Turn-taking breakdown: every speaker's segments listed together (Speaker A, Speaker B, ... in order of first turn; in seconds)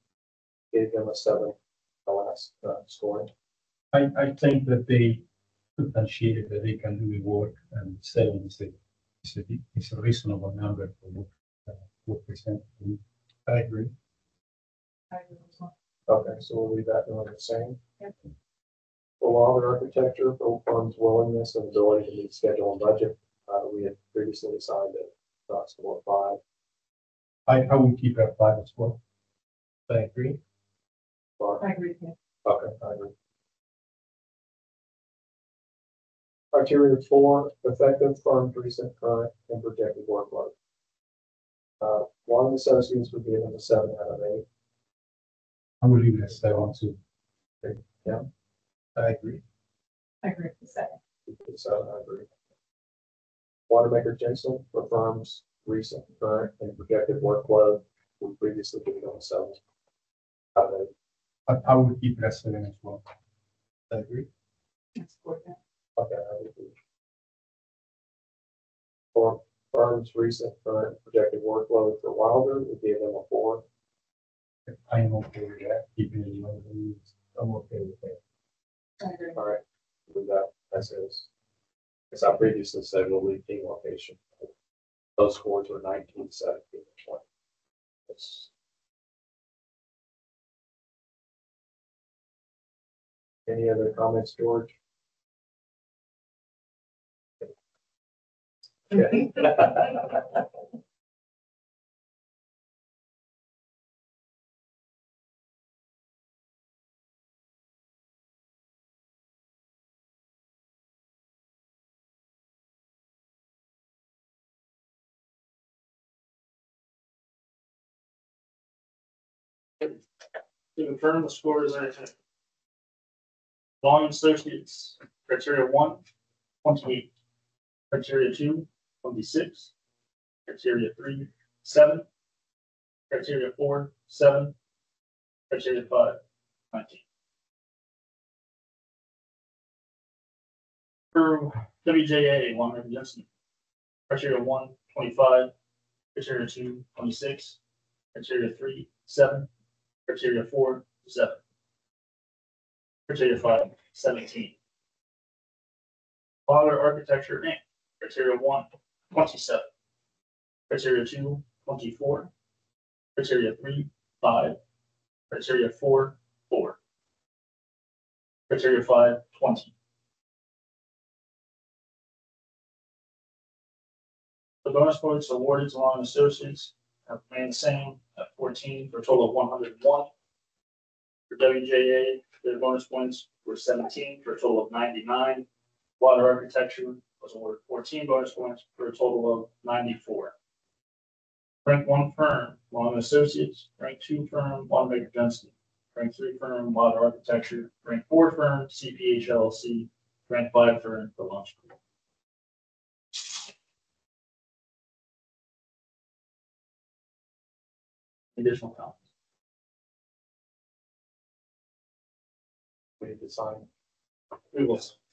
Speaker A: 0.7-3.3, 16.1-17.8, 19.2-26.4, 31.4-31.6, 32.4-33.1, 36.5-40.5, 41.8-44.4, 47.6-48.2, 51.3-52.3, 53.7-59.6, 60.5-60.9, 66.0-66.7, 69.1-73.6, 79.3-81.3, 82.1-84.5, 85.2-87.2, 88.1-88.5, 93.5-94.7, 98.9-100.2, 213.0-213.7
Speaker B: 3.9-5.2, 5.8-13.0, 27.4-29.0, 45.8-47.0, 61.5-63.0, 74.7-77.1
Speaker C: 13.5-13.9, 29.9-30.4, 49.0-49.4, 63.9-64.2, 77.3-78.2
Speaker D: 15.1-15.7, 31.6-32.1, 50.2-50.9, 65.0-65.5, 79.0-79.3
Speaker E: 120.8-122.1, 123.8-126.0, 126.6-127.1, 127.9-129.7, 130.5-132.0, 133.1-134.5, 135.5-137.0, 141.1-143.2, 144.1-145.5, 146.1-147.6, 148.1-149.5, 150.1-151.4, 153.1-154.5, 156.5-159.6, 160.7-162.3, 163.2-164.6, 165.3-166.8, 168.5-169.7, 174.6-180.1, 181.3-185.4, 186.0-190.3, 191.6-201.8, 203.1-203.4, 208.3-209.0, 214.5-214.9